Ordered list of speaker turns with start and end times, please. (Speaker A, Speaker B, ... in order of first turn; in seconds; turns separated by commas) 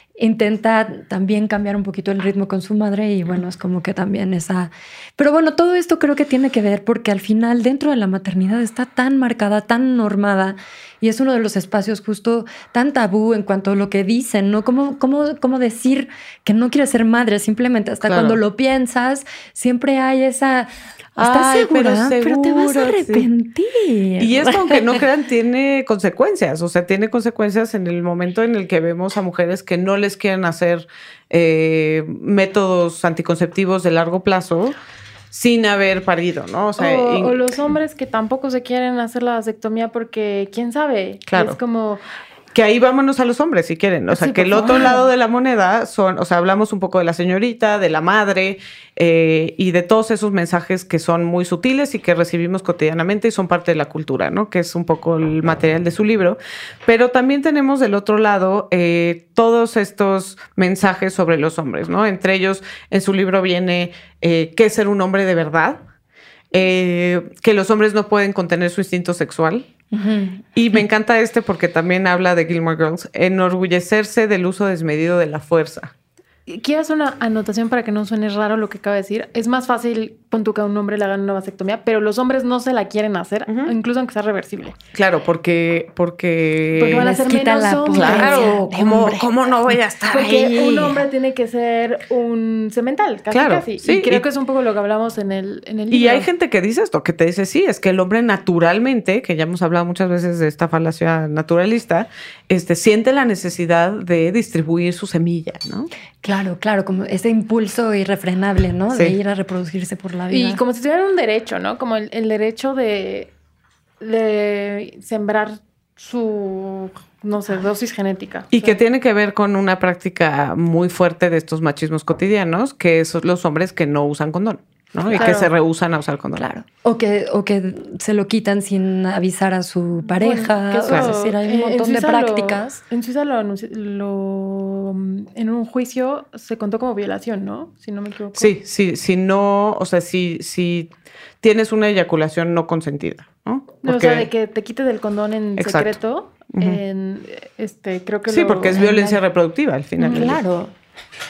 Speaker A: 0.2-24.8, Speaker B: 18.1-18.4, Speaker B: 21.2-23.3, Speaker B: 24.2-34.8, Speaker B: 35.3-37.4, Speaker C: 36.8-42.0, Speaker B: 41.3-41.6, Speaker B: 42.5-65.8, Speaker C: 44.1-45.1, Speaker B: 66.5-69.7, Speaker A: 69.9-70.4, Speaker B: 70.5-75.9, Speaker C: 76.5-84.8, Speaker B: 83.5-83.7, Speaker B: 84.9-87.1, Speaker C: 86.8-88.6, Speaker A: 86.9-91.0, Speaker B: 87.9-90.5, Speaker C: 90.1-96.3, Speaker B: 93.3-94.2, Speaker B: 95.9-105.9, Speaker A: 106.2-110.6, Speaker C: 110.3-113.3, Speaker C: 114.0-118.8, Speaker B: 118.5-126.5, Speaker A: 125.1-125.5, Speaker C: 125.1-125.5, Speaker A: 126.4-132.8, Speaker C: 130.1-138.5, Speaker B: 138.4-144.3, Speaker C: 143.8-149.2, Speaker B: 145.6-145.9, Speaker B: 146.5-146.8, Speaker B: 148.3-150.4, Speaker A: 148.8-149.2, Speaker C: 150.0-150.3, Speaker A: 150.1-150.7